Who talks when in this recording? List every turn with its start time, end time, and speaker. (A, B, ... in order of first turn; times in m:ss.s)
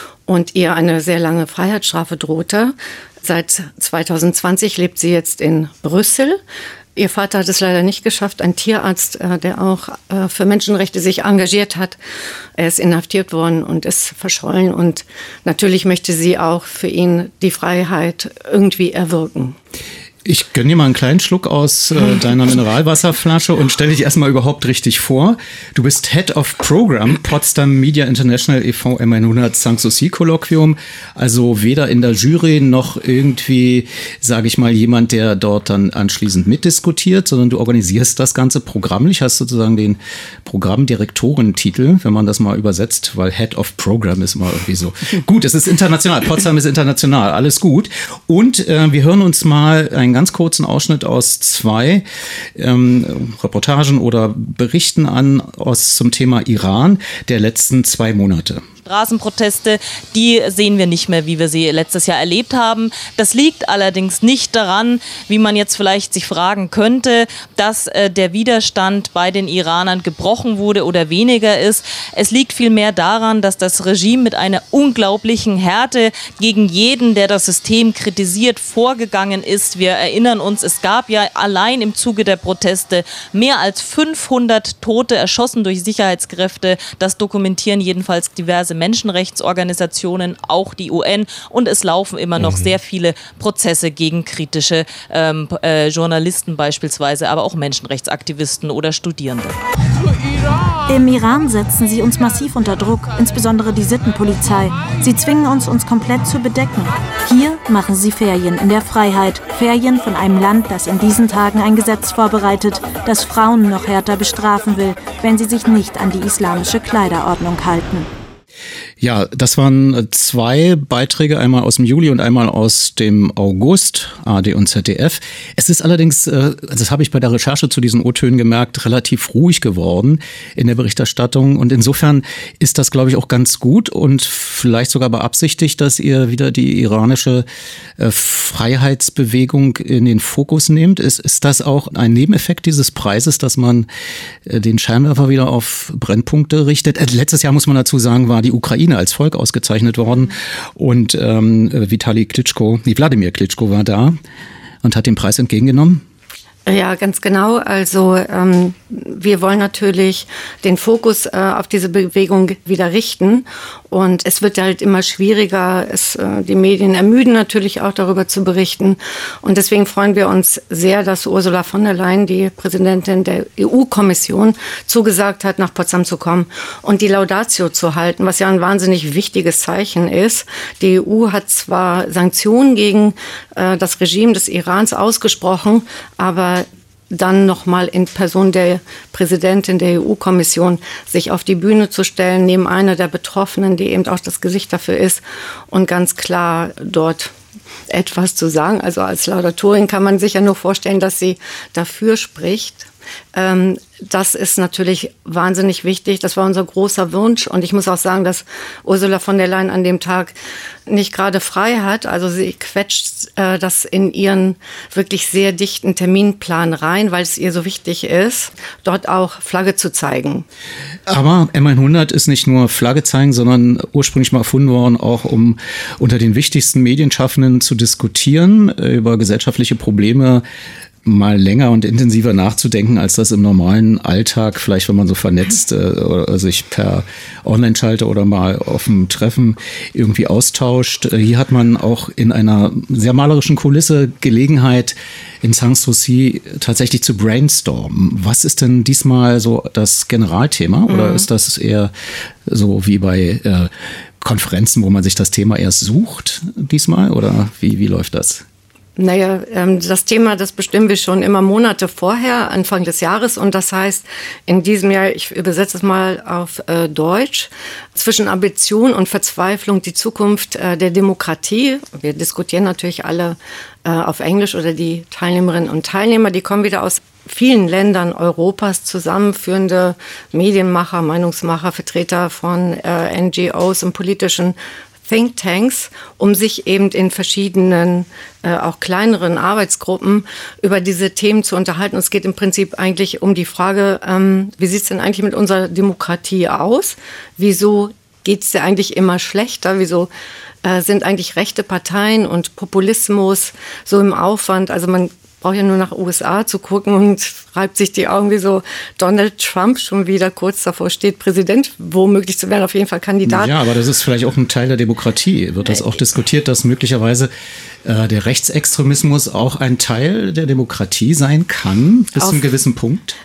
0:00.3-0:06.4 A
0:07.0-0:12.0 A
0:12.6-0:19.6 A
0:20.2-0:58.6 B
0:58.8-1:39.6 C
1:40.9-1:58.1 D
1:59.0-2:17.4 B
2:18.0-2:23.9 B
2:24.4-2:34.2 B
2:34.8-2:36.0 B
2:36.7-3:17.3 A
3:17.9-3:30.3 A
3:30.9-3:40.4 A
3:41.1-3:50.4 B
3:51.0-4:11.9 B
4:10.9-4:11.3 A
4:12.4-4:18.4 B
4:19.0-5:00.1 A
5:00.6-5:13.6 A
5:13.2-5:17.3 B
5:15.6-5:16.0 A
5:17.8-5:23.2 B
5:22.2-5:22.4 A